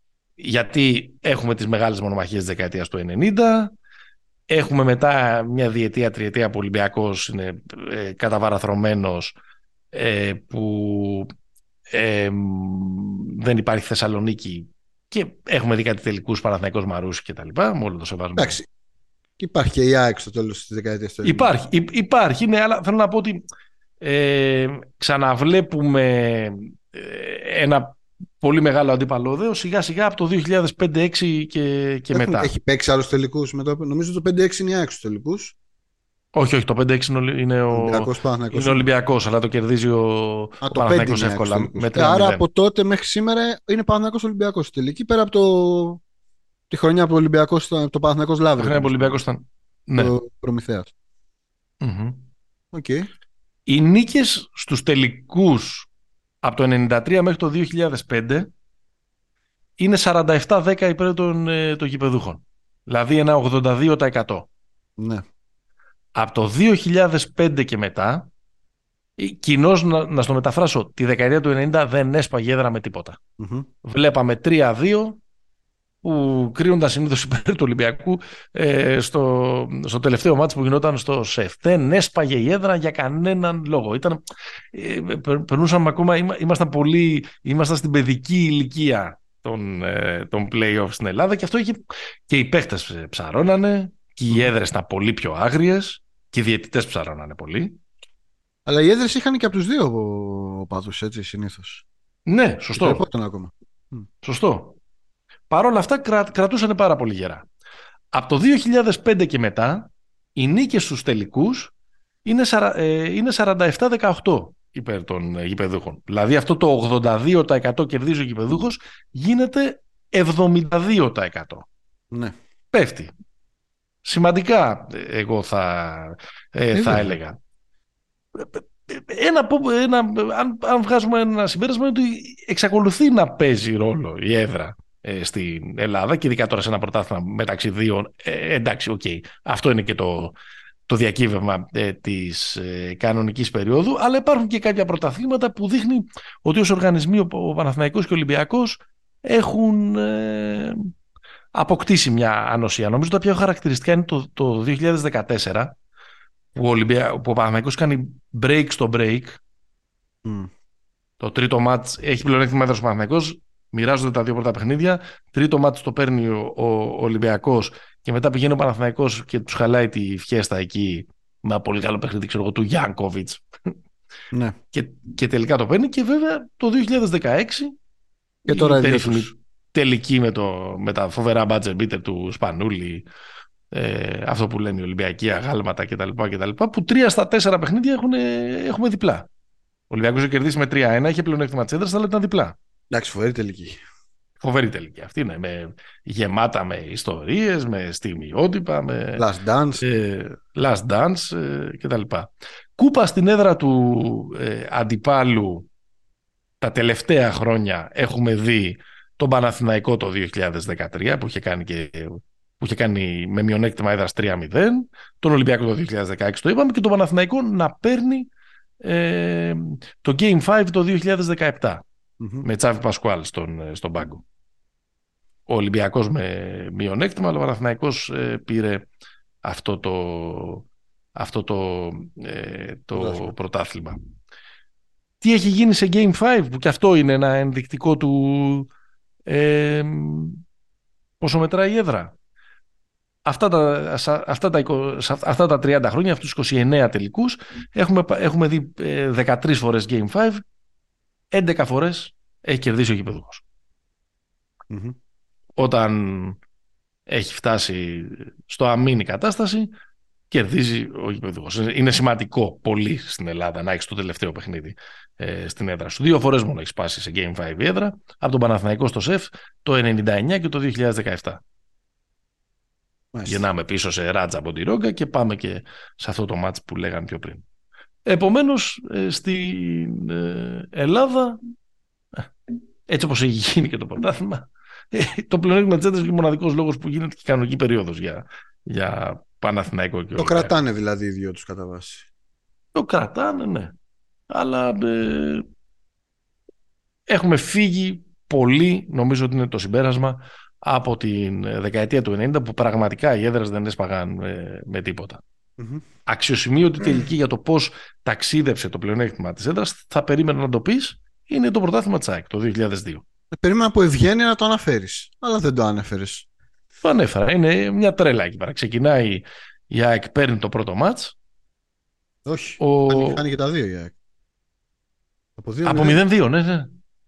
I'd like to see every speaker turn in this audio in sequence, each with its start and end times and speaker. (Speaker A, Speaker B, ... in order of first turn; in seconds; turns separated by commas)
Speaker A: 0.4-3.7, Speaker A: 4.5-9.3, Speaker A: 9.9-11.3, Speaker A: 11.9-18.6, Speaker B: 18.4-18.6, Speaker B: 19.4-21.5, Speaker A: 21.2-23.4, Speaker A: 24.0-32.5, Speaker B: 32.1-35.5, Speaker A: 36.3-42.4, Speaker B: 37.7-38.9, Speaker B: 40.6-46.0, Speaker B: 46.7-49.2, Speaker A: 48.6-50.1, Speaker B: 50.0-50.9, Speaker A: 51.8-52.2, Speaker B: 52.7-53.1, Speaker A: 53.7-55.9, Speaker A: 56.4-58.5, Speaker A: 59.8-64.5, Speaker B: 65.0-65.2, Speaker A: 66.2-68.3, Speaker A: 69.2-73.2, Speaker B: 73.4-73.7, Speaker A: 73.8-75.2, Speaker A: 76.0-84.2, Speaker A: 84.7-97.8, Speaker B: 98.7-101.8, Speaker A: 102.3-103.0, Speaker B: 102.7-104.0, Speaker A: 104.2-104.8, Speaker A: 105.5-107.5, Speaker A: 108.1-111.7, Speaker A: 112.2-121.7, Speaker A: 122.7-123.1, Speaker A: 124.0-127.4, Speaker B: 126.7-127.1, Speaker A: 128.3-140.3, Speaker A: 140.9-150.9, Speaker A: 151.5-155.7, Speaker A: 156.5-159.4, Speaker B: 160.2-160.5, Speaker A: 161.2-173.7, Speaker A: 174.7-177.7, Speaker B: 178.4-179.3, Speaker A: 178.5-183.0, Speaker A: 183.7-189.3, Speaker A: 189.9-192.6, Speaker B: 192.9-193.8, Speaker A: 194.4-199.2, Speaker B: 199.1-199.8, Speaker A: 199.8-205.7, Speaker A: 206.6-218.3, Speaker A: 218.8-221.8, Speaker B: 222.2-222.5, Speaker A: 222.4-224.2, Speaker A: 225.5-228.9, Speaker A: 229.4-234.0, Speaker B: 232.9-233.3, Speaker A: 235.2-238.7, Speaker A: 239.3-240.4, Speaker A: 241.2-242.1, Speaker A: 243.2-250.4, Speaker A: 251.3-253.4, Speaker B: 254.7-254.9, Speaker A: 255.6-256.4, Speaker A: 257.1-259.7, Speaker A: 260.3-271.4, Speaker B: 273.1-273.4, Speaker A: 273.2-277.4, Speaker A: 278.1-281.4, Speaker A: 282.9-290.5, Speaker B: 290.1-292.1, Speaker A: 292.7-293.7, Speaker A: 294.3-295.4, Speaker A: 297.1-305.2, Speaker B: 305.6-305.8, Speaker A: 306.1-313.0, Speaker B: 313.3-316.2, Speaker A: 316.8-321.1, Speaker B: 322.2-323.9, Speaker A: 322.6-323.2, Speaker B: 325.4-326.0, Speaker A: 325.6-326.7